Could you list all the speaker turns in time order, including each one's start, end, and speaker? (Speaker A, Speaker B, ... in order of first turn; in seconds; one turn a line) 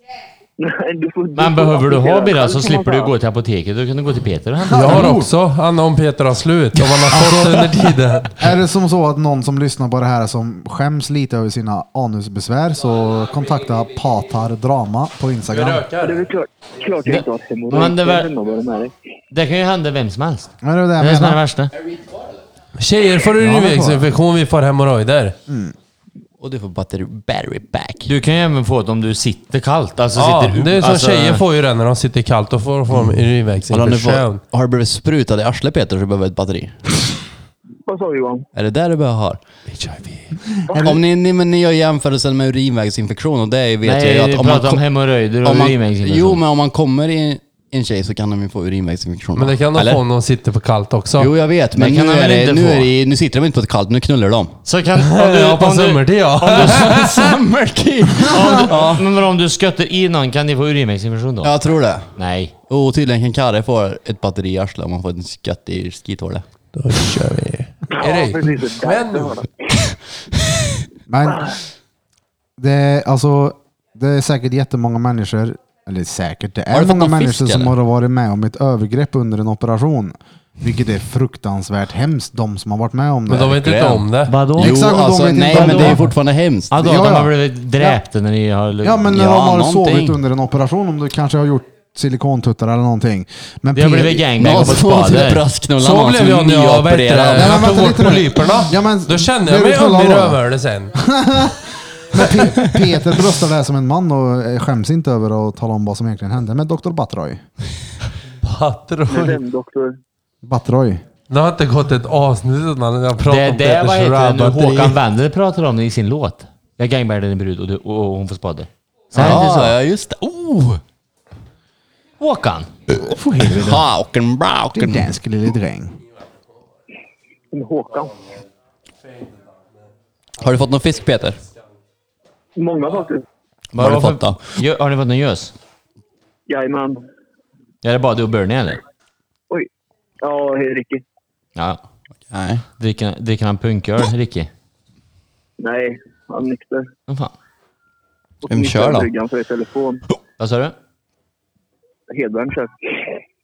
Speaker A: 0.6-3.1
Speaker B: 1.4-5.1
Speaker C: 4.7-5.3
Speaker D: 4.7-8.5
Speaker C: 7.1-7.8
Speaker C: 8.4-15.8
Speaker D: 15.5-16.3
Speaker A: 16.0-18.9
Speaker B: 17.1-18.3
Speaker B: 19.3-21.7
Speaker C: 20.6-21.4
Speaker D: 22.8-25.3
Speaker C: 23.4-24.1
Speaker C: 25.5-25.7
Speaker E: 26.4-28.1
Speaker B: 28.1-31.4
Speaker D: 30.1-34.4
Speaker E: 32.9-36.7
Speaker A: 37.9-38.5
Speaker E: 38.5-39.4
Speaker A: 40.7-41.0
Speaker E: 40.8-44.8
Speaker B: 43.8-46.4
Speaker E: 45.4-50.0
Speaker D: 49.4-51.3
Speaker E: 51.2-54.5
Speaker B: 51.7-52.9
Speaker B: 54.6-57.2
Speaker D: 55.0-57.3
Speaker E: 56.6-59.0
Speaker B: 58.3-61.5
Speaker E: 61.4-62.0
Speaker B: 62.1-62.5
Speaker E: 62.7-66.4
Speaker D: 66.7-69.4
Speaker A: 68.0-69.6
Speaker C: 71.1-71.5
Speaker C: 72.6-83.7
Speaker E: 76.7-77.7
Speaker D: 83.3-84.3
Speaker E: 83.6-86.7
Speaker B: 84.3-84.8
Speaker C: 84.6-86.0
Speaker B: 85.5-86.0
Speaker B: 86.7-89.2
Speaker C: 86.7-88.0
Speaker C: 88.8-94.5
Speaker E: 89.1-90.2
Speaker B: 93.7-95.4
Speaker E: 94.4-97.6
Speaker D: 95.8-100.9
Speaker C: 97.3-100.4
Speaker C: 100.9-107.4
Speaker D: 108.4-109.4
Speaker A: 109.1-110.0
Speaker C: 110.4-111.0
Speaker D: 111.3-115.0
Speaker B: 113.2-119.8
Speaker E: 119.1-120.8
Speaker B: 122.2-122.7
Speaker C: 123.0-123.8
Speaker E: 123.5-125.1
Speaker C: 124.7-126.0
Speaker A: 127.5-128.1
Speaker E: 130.4-131.4
Speaker A: 132.6-133.2
Speaker B: 133.7-135.5
Speaker E: 133.8-134.4
Speaker A: 136.5-137.0
Speaker B: 137.8-138.8
Speaker A: 140.2-141.0
Speaker B: 141.6-141.8
Speaker E: 142.3-142.6
Speaker B: 142.8-144.5
Speaker A: 145.6-146.9
Speaker B: 147.1-147.3
Speaker A: 148.4-150.0
Speaker E: 148.5-149.1
Speaker B: 150.4-150.7
Speaker A: 152.1-153.1